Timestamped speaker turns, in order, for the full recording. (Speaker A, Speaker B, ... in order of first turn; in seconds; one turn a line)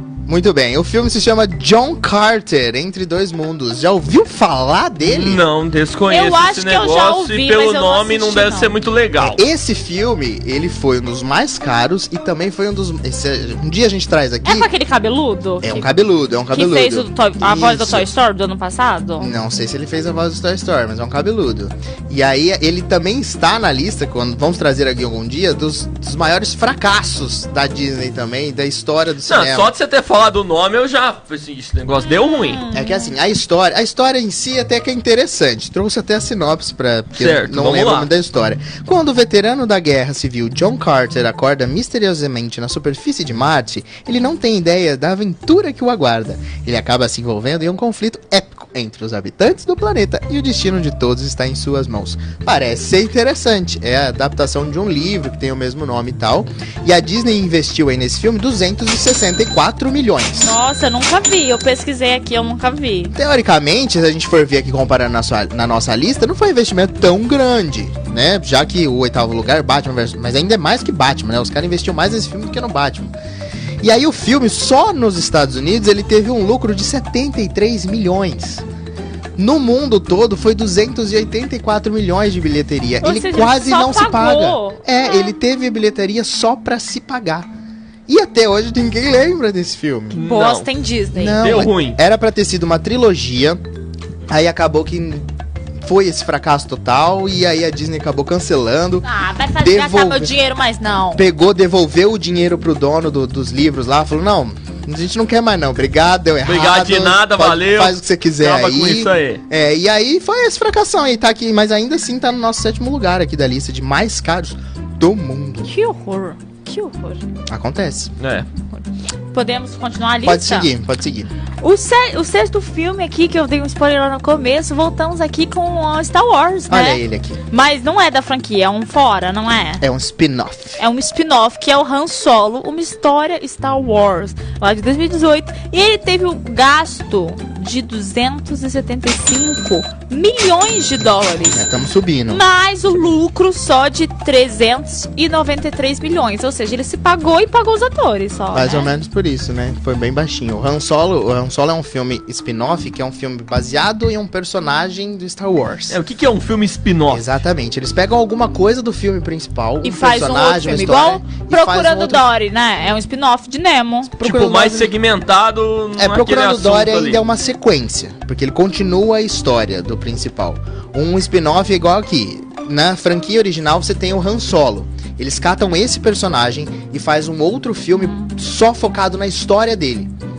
Speaker A: 0.3-5.4
Speaker B: 5.0-9.4
Speaker C: 6.1-8.7
Speaker A: 9.2-14.7
Speaker C: 14.4-15.9
Speaker A: 15.6-18.1
Speaker C: 16.5-19.3
Speaker A: 19.2-29.7
Speaker B: 29.2-32.6
Speaker C: 32.1-33.1
Speaker A: 32.7-60.5
Speaker B: 37.1-38.1
Speaker C: 60.3-63.1
Speaker A: 63.1-73.1
Speaker A: 73.8-78.6
Speaker A: 79.3-87.5
Speaker C: 83.0-85.3
Speaker A: 88.1-90.2
Speaker B: 90.1-90.7
Speaker C: 90.1-91.4
Speaker A: 91.1-93.6
Speaker B: 91.4-92.0
Speaker A: 94.3-95.3
Speaker A: 95.8-99.0
Speaker C: 99.0-101.2
Speaker A: 99.6-100.3
Speaker A: 101.1-115.7
Speaker B: 106.4-109.4
Speaker C: 115.6-117.2
Speaker A: 117.5-118.1
Speaker B: 118.2-118.5
Speaker C: 118.7-120.7
Speaker A: 120.2-121.3
Speaker C: 121.6-129.8
Speaker A: 126.7-127.4
Speaker A: 129.8-130.8
Speaker C: 130.8-141.6
Speaker A: 141.5-142.4
Speaker C: 142.3-148.9
Speaker A: 148.5-156.0
Speaker B: 155.9-157.2
Speaker A: 157.1-162.3
Speaker C: 159.8-164.1
Speaker A: 164.1-164.9
Speaker B: 164.2-167.2
Speaker A: 166.0-180.1